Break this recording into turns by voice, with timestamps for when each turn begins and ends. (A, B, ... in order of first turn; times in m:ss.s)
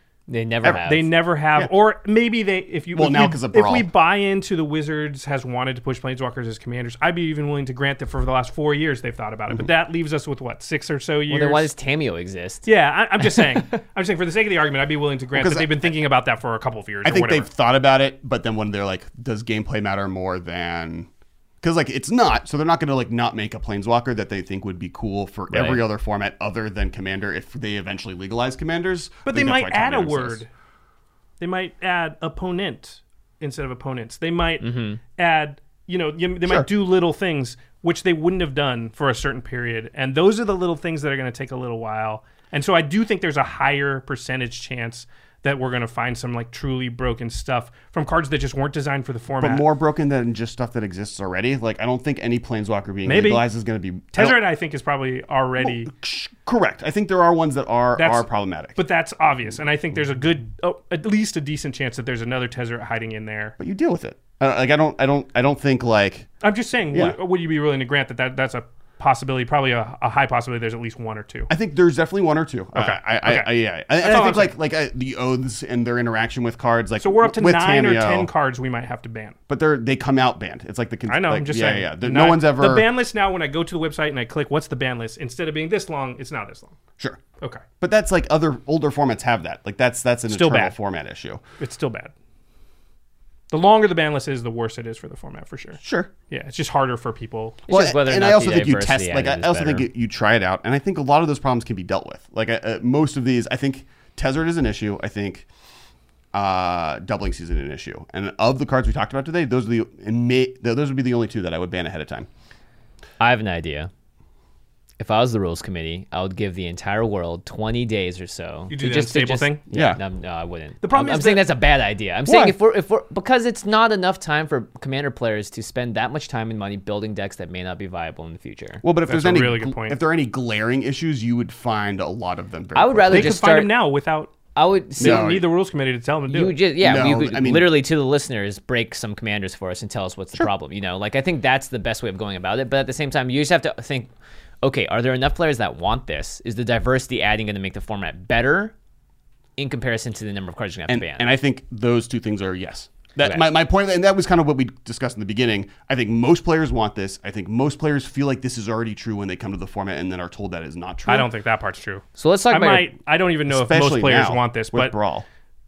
0:00.3-0:01.1 A
0:00.8-0:11.7 B
0:02.9-0:03.9 C
0:11.3-0:12.6 A
0:12.6-0:17.5 B
0:15.3-0:15.9 C
0:17.0-0:21.1 C
0:21.6-0:30.4 C
0:25.5-0:25.9 A
0:29.3-0:30.5 B
0:31.4-0:49.7 B
0:34.6-0:35.0 A
0:49.4-0:54.4 C
0:53.0-0:53.5 B
0:54.1-0:55.9 B
0:55.6-0:58.8 C
0:58.0-1:03.6 B
1:03.6-1:06.3 C
1:06.4-1:11.5 B
1:11.5-1:18.3 C
1:12.8-1:14.6 B
1:17.0-1:19.4 B
1:19.5-1:22.9 C
1:21.1-1:26.8 B
1:27.8-1:31.4 C
1:30.3-1:30.7 B
1:31.6-1:32.1 B
1:33.5-1:37.6 B
1:35.8-1:36.1 C
1:37.7-1:39.9 A
1:37.7-1:45.5 C
1:46.3-1:52.3 C
1:53.2-1:53.9 A
1:55.0-2:08.8 A
1:58.7-1:59.6 B
1:59.7-2:00.0 C
2:00.8-2:01.5 B
2:02.3-2:02.6 C
2:08.8-2:13.4 C
2:09.1-2:10.0 B
2:12.8-2:13.7 A
2:13.1-2:14.4 B
2:14.6-2:15.3 A
2:15.0-2:16.6 B
2:15.0-2:15.5 C
2:16.3-2:24.1 A
2:16.8-2:17.8 C
2:24.6-2:28.7 A
2:29.6-2:31.3 A
2:30.9-2:41.3 C
2:41.1-2:45.0 B
2:42.2-2:42.9 A
2:43.5-2:45.3 C